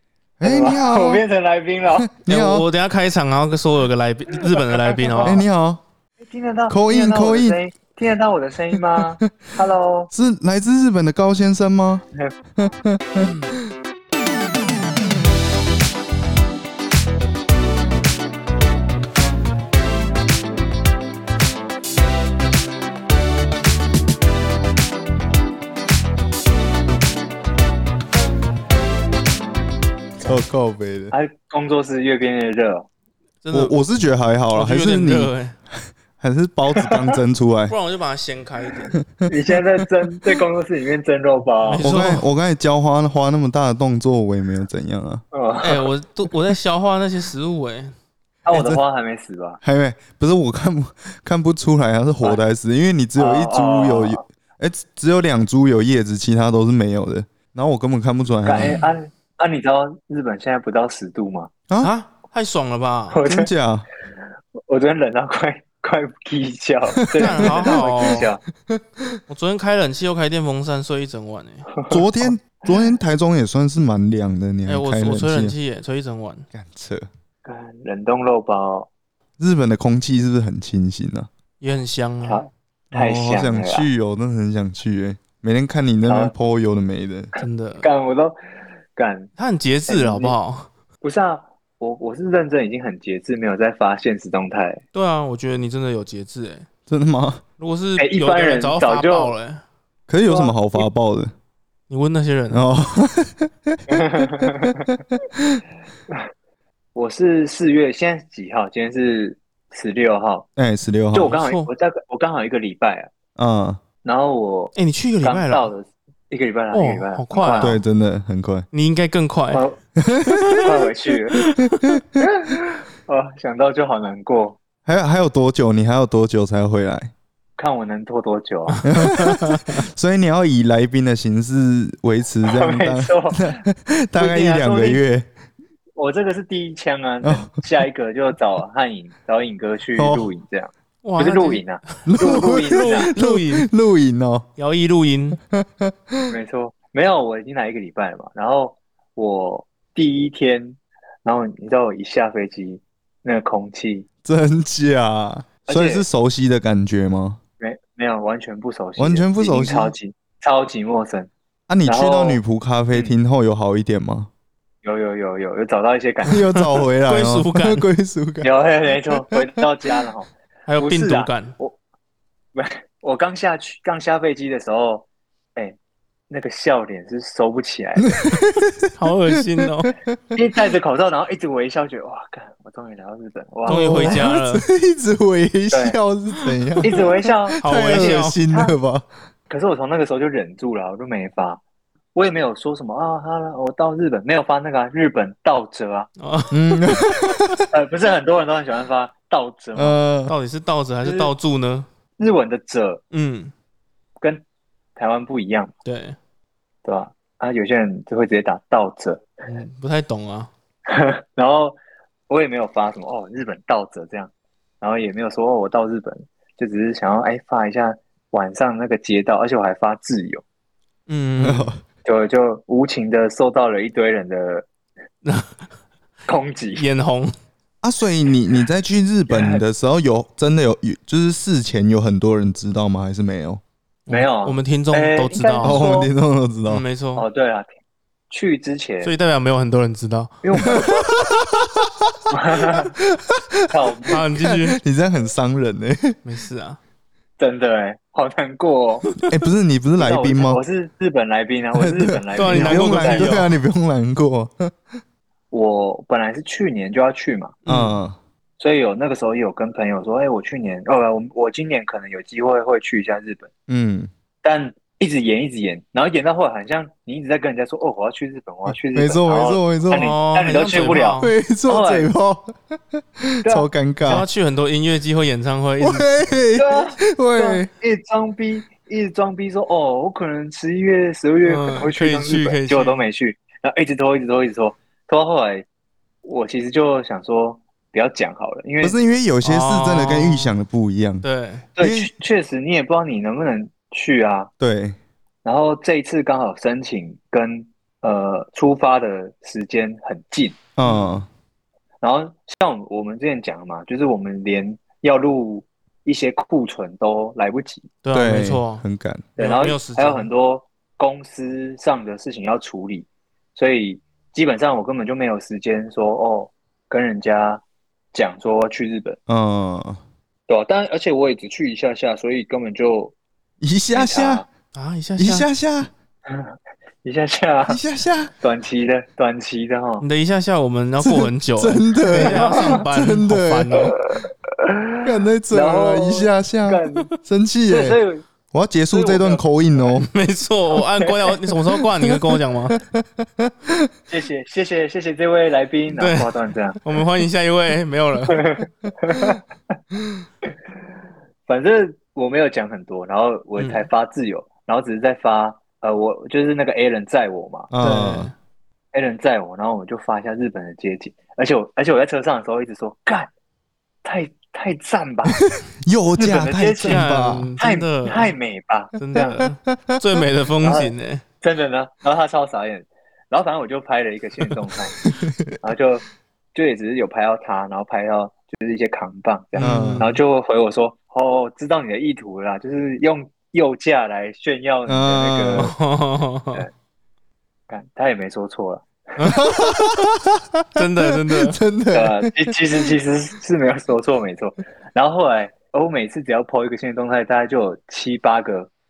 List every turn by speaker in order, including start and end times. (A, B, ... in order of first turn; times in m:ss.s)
0:00.4-0:01.2 A
0:00.4-0:02.1 B
0:02.0-0:02.7 A
0:02.3-0:05.4 C
0:04.9-0:05.4 B
0:05.2-0:05.8 A
0:06.2-0:10.1 B
0:06.7-0:07.6 A
0:08.7-0:09.5 A
0:10.1-0:12.0 A
0:12.6-0:13.3 A
0:13.2-0:13.5 C
0:30.2-0:31.1 A
0:31.1-0:32.9 B
0:33.4-0:33.8 C
0:33.5-0:35.3 A
0:34.5-0:35.5 C
0:36.2-0:37.7 A
0:37.7-0:39.0 C
0:38.9-0:39.8 A
0:39.2-0:41.9 B
0:41.6-0:42.3 C
0:41.8-0:45.2 A
0:45.3-0:45.9 B
0:45.6-0:47.9 C
0:48.4-0:49.6 B
0:48.5-0:48.8 A
0:49.6-0:58.8 A
0:53.2-0:54.2 B
0:58.4-1:01.5 B
1:01.8-1:03.2 C
1:03.1-1:03.5 B
1:03.2-1:03.9 A
1:04.7-1:08.4 B
1:07.1-1:09.2 A
1:07.2-1:08.3 C
1:09.3-1:11.7 C
1:11.7-1:12.9 B
1:11.9-1:15.6 A
1:14.7-1:16.4 C
1:16.5-1:17.1 A
1:17.4-1:18.9 B
1:19.4-1:21.3 A
1:21.6-1:22.4 C
1:22.2-1:23.9 B
1:22.9-1:27.3 A
1:26.0-1:26.3 B
1:27.4-1:27.8 C
1:27.8-1:28.4 B
1:28.9-1:29.3 B
1:29.4-1:30.7 C
1:29.9-1:30.4 B
1:31.0-1:34.8 B
1:34.9-1:36.6 C
1:36.9-1:37.4 A
1:37.6-1:39.6 C
1:38.0-1:39.3 B
1:40.1-1:41.3 A
1:40.3-1:40.8 B
1:41.9-1:42.7 C
1:42.5-1:45.6 A
1:43.9-1:44.9 B
1:46.9-1:50.4 B
1:50.6-1:51.3 A
1:51.1-1:53.1 B
1:51.2-1:51.7 C
1:53.4-1:53.8 A
1:54.0-1:57.8 B
1:54.7-1:55.7 C
1:56.7-1:57.7 C
1:57.6-1:58.7 A
1:58.7-1:59.6 C
1:59.5-1:59.8 B
2:00.0-2:00.7 A
2:00.4-2:00.7 C
2:00.6-2:01.4 B
2:01.3-2:01.9 C
2:01.3-2:02.2 A
2:02.2-2:04.6 B
2:04.8-2:07.1 A
2:07.6-2:08.8 B
2:08.7-2:09.8 C
2:08.8-2:15.2 A
2:12.4-2:13.6 B
2:14.2-2:15.0 B
2:16.0-2:23.1 B
2:17.2-2:17.6 A
2:20.0-2:20.3 A
2:21.0-2:21.7 C
2:22.0-2:24.4 A
2:22.4-2:23.7 C
2:24.6-2:25.4 C
2:25.4-2:26.3 A
2:26.3-2:34.0 B
2:34.2-2:37.4 A
2:35.6-2:36.0 B
2:37.6-2:41.3 B
2:39.0-2:39.9 A
2:41.7-2:44.3 A
2:41.8-2:42.4 B
2:44.8-2:46.5 B
2:46.2-2:48.5 A
2:46.6-2:47.8 C
2:48.4-2:51.7 B
2:50.7-2:51.5 C
2:52.5-2:55.8 B
2:56.3-2:58.2 B
2:58.0-2:58.9 A
2:58.9-2:59.9 C
2:59.6-3:00.2 A
3:00.3-3:04.2 B
3:03.7-3:04.6 C
3:03.7-3:09.0 A
3:05.7-3:06.0 B
3:06.4-3:07.0 C
3:06.8-3:08.7 B
3:07.6-3:08.4 C
3:09.5-3:11.6 B
3:12.1-3:16.1 B
3:16.2-3:17.2 C
3:16.5-3:17.6 A
3:17.7-3:20.0 B
3:19.8-3:20.3 A
3:20.3-3:21.9 C
3:21.0-3:21.3 B
3:22.2-3:23.0 B
3:23.1-3:23.5 C
3:25.0-3:25.7 B
3:25.8-3:26.2 C
3:26.8-3:29.3 B
3:29.5-3:30.5 C
3:30.9-3:31.8 B
3:32.3-3:40.4 B
3:41.1-3:41.7 C
3:41.4-3:41.8 A
3:42.0-3:44.6 B
3:45.2-3:45.6 C
3:46.3-3:46.8 B
3:46.8-3:47.3 C
3:47.8-3:53.6 A
3:49.3-3:49.6 B
3:54.1-3:55.8 C
3:54.1-3:56.1 B
3:55.6-3:56.8 A
3:56.7-3:57.2 C
3:57.2-3:57.7 B
3:58.3-3:59.1 B
3:59.0-4:00.7 C
4:00.4-4:01.1 B
4:00.6-4:02.2 A
4:02.3-4:02.9 B
4:02.8-4:06.2 A
4:03.7-4:04.2 B
4:04.1-4:04.8 C
4:06.2-4:06.8 C
4:07.4-4:09.1 B
4:09.2-4:10.6 A
4:10.0-4:13.4 B
4:11.7-4:14.7 A
4:12.3-4:13.5 C
4:15.5-4:17.6 B
4:17.6-4:18.0 C
4:17.7-4:18.2 A
4:18.6-4:23.5 B
4:23.7-4:24.1 A
4:24.4-4:32.1 B
4:28.7-4:30.1 A
4:29.9-4:31.3 C
4:31.2-4:34.3 A
4:34.0-4:36.1 C
4:35.8-4:37.7 A
4:36.6-4:45.6 B
4:41.4-4:43.0 C
4:46.2-4:49.0 B
4:48.8-4:51.2 A
4:49.4-4:50.5 C
4:51.2-4:51.7 C
4:51.8-4:54.5 B
4:51.8-4:52.1 A
4:54.6-4:55.0 A
4:55.4-5:00.6 B
5:00.8-5:01.3 A
5:00.8-5:01.2 C
5:02.0-5:07.9 B
5:08.0-5:08.8 C
5:08.1-5:09.3 A
5:09.4-5:17.6 B
5:09.4-5:10.3 C
5:18.1-5:19.2 B
5:19.3-5:20.0 A
5:20.5-5:23.1 B
5:23.6-5:24.4 A
5:23.9-5:24.4 B
5:24.7-5:25.5 C
5:25.2-5:25.9 A
5:26.3-5:26.5 B
5:27.0-5:27.8 B
5:27.7-5:28.3 A
5:28.4-5:30.0 B
5:30.0-5:33.9 C
5:31.0-5:33.8 A
5:32.2-5:32.8 B
5:34.0-5:37.1 B
5:35.0-5:38.0 A
5:37.7-5:38.2 B
5:38.5-5:40.1 A
5:38.9-5:39.4 B
5:39.9-5:42.8 C
5:40.8-5:41.3 B
5:41.9-5:43.9 A
5:44.1-5:46.8 B
5:45.9-5:48.4 C
5:48.3-5:49.4 B
5:51.5-5:57.7 B
5:53.6-5:53.9 C
5:57.7-5:58.3 A
5:57.8-5:58.3 C
5:58.9-6:03.3 B
6:04.0-6:05.4 B
6:05.3-6:07.5 A
6:06.2-6:07.0 B
6:06.8-6:08.3 C
6:07.6-6:09.4 B
6:09.0-6:11.2 C
6:09.4-6:10.0 A
6:10.6-6:14.9 B
6:15.0-6:15.5 A
6:15.6-6:25.7 B
6:19.6-6:20.2 C
6:19.6-6:20.1 A
6:24.9-6:25.7 A
6:25.6-6:26.6 C
6:27.7-6:28.8 B
6:29.2-6:29.9 C
6:29.2-6:32.6 A
6:30.7-6:31.6 C
6:31.9-6:38.7 B